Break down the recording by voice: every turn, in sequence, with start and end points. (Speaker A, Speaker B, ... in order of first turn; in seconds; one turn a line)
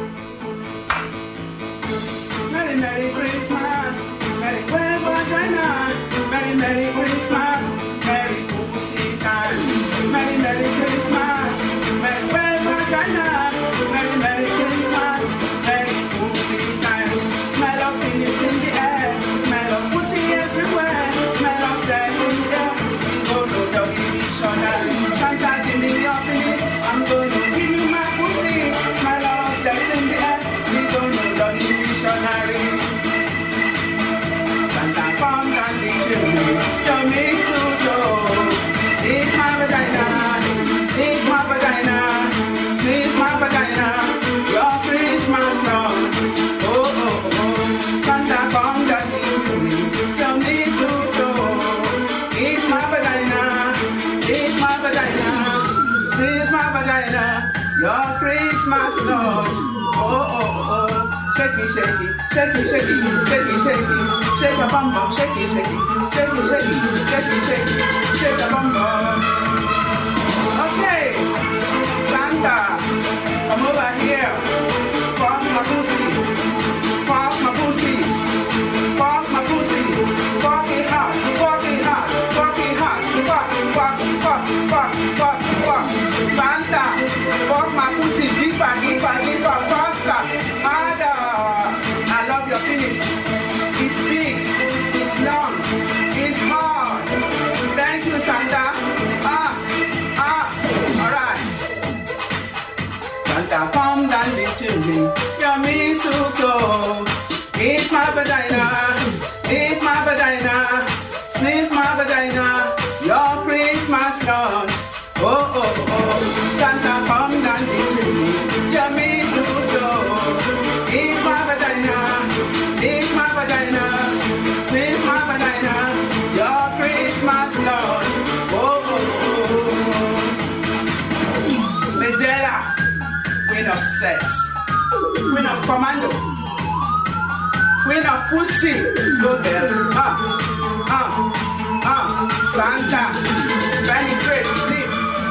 Speaker A: 2.5-33.0
Speaker A: 34.6-69.5
Speaker A: 70.5-71.3
Speaker A: 72.0-72.9
Speaker A: 73.5-74.5
Speaker A: 75.1-76.3
Speaker A: 77.0-78.2
Speaker A: 78.9-97.2
Speaker A: 97.7-101.5
Speaker A: 103.2-130.3
Speaker A: 131.9-132.7
Speaker A: 133.4-134.5
Speaker A: 135.2-136.2
Speaker A: 137.8-145.0